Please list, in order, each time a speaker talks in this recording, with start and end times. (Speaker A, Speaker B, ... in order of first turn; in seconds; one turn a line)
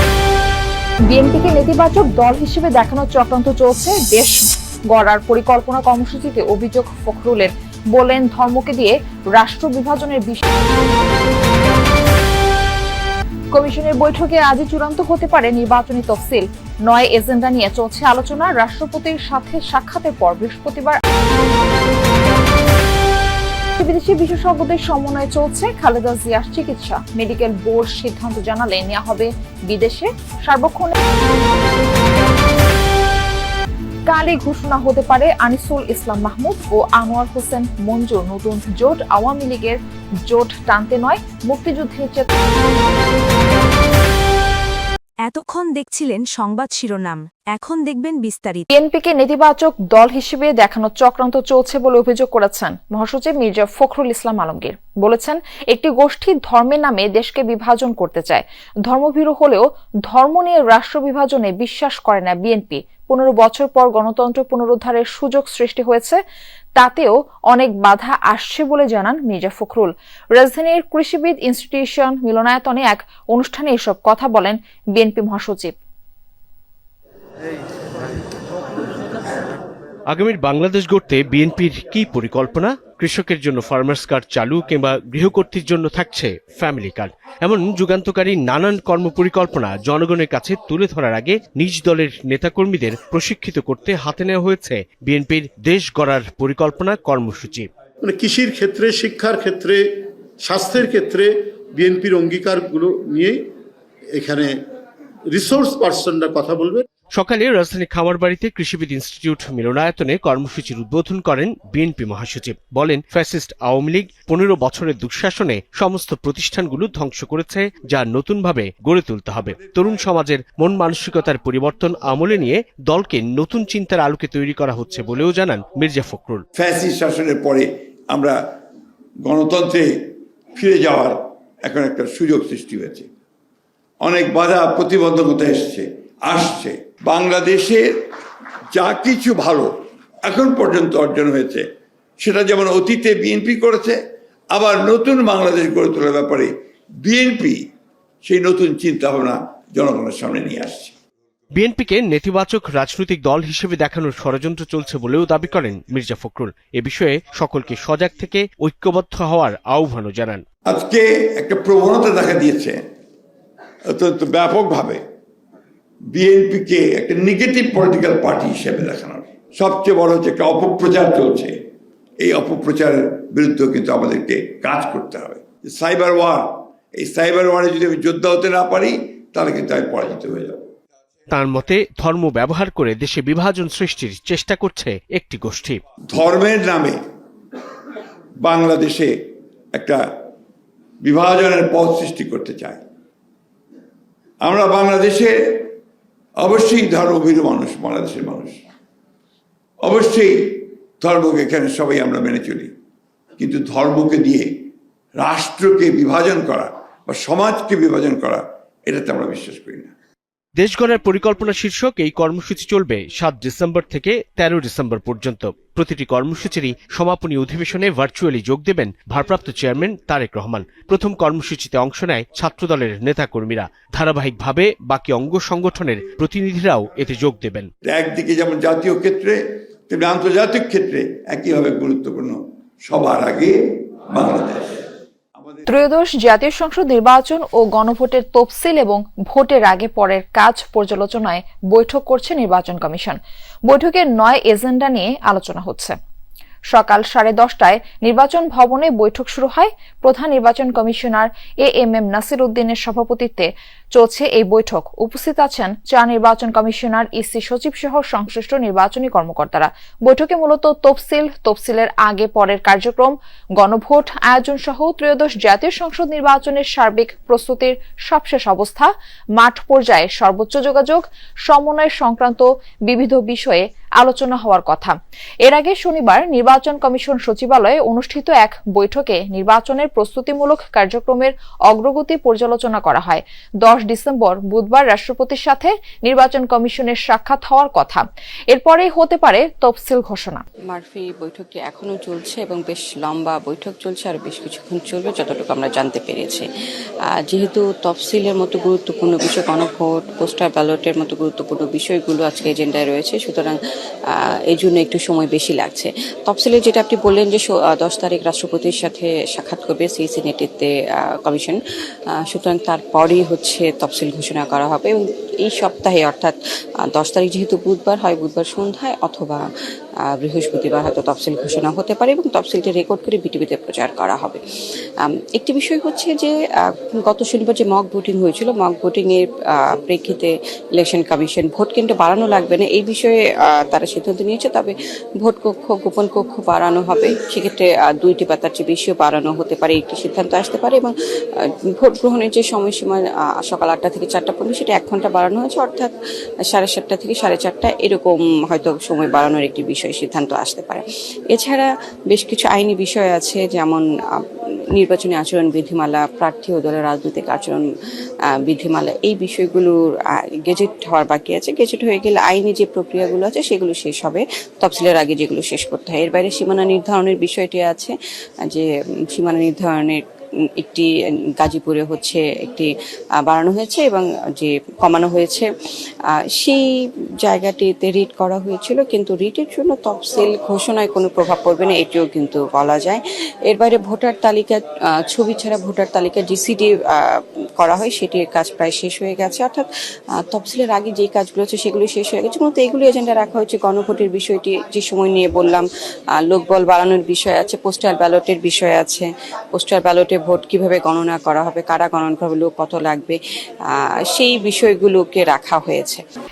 Speaker A: 1.1-10.4
Speaker A: 13.5-21.0
Speaker A: 23.8-30.9
Speaker A: 34.1-42.3
Speaker B: 45.2-48.6
Speaker A: 48.7-66.2
Speaker A: 66.8-75.7
Speaker C: 80.1-97.7
Speaker D: 98.0-103.4
Speaker D: 104.1-104.6
Speaker D: 105.3-106.8
Speaker C: 107.1-126.4
Speaker E: 126.5-128.4
Speaker E: 129.2-133.1
Speaker E: 134.0-138.0
Speaker E: 138.7-141.7
Speaker E: 142.2-144.0
Speaker E: 144.5-146.5
Speaker E: 147.0-147.7
Speaker E: 148.2-150.9
Speaker C: 151.5-160.4
Speaker E: 160.7-162.8
Speaker E: 163.9-165.0
Speaker E: 166.1-171.5
Speaker E: 172.2-180.7
Speaker C: 181.3-185.8
Speaker E: 186.1-187.0
Speaker E: 188.4-189.1
Speaker E: 189.7-190.0
Speaker E: 191.0-192.8
Speaker E: 194.4-195.7
Speaker E: 196.4-198.6
Speaker E: 199.8-202.7
Speaker E: 203.4-204.5
Speaker E: 205.2-209.9
Speaker C: 210.6-227.7
Speaker E: 227.8-229.4
Speaker E: 229.9-233.6
Speaker E: 234.1-234.8
Speaker E: 235.4-235.7
Speaker A: 235.7-245.9
Speaker A: 246.7-290.4
Speaker F: 290.7-296.4
Speaker F: 297.3-303.6
Speaker F: 304.1-311.6
Speaker F: 312.3-316.4
Speaker F: 316.9-319.4
Speaker F: 320.1-324.4
Speaker F: 325.0-340.9
Speaker F: 341.8-345.9
Speaker F: 346.5-353.8
Speaker F: 354.8-357.6
Speaker F: 358.5-359.7
Speaker F: 360.4-367.9
Speaker F: 368.5-370.0
Speaker F: 370.6-370.9
Speaker F: 371.4-372.7
Speaker F: 373.2-375.5
Speaker F: 377.2-389.7
Speaker F: 390.3-395.6
Speaker F: 396.3-403.2
Speaker F: 404.1-406.0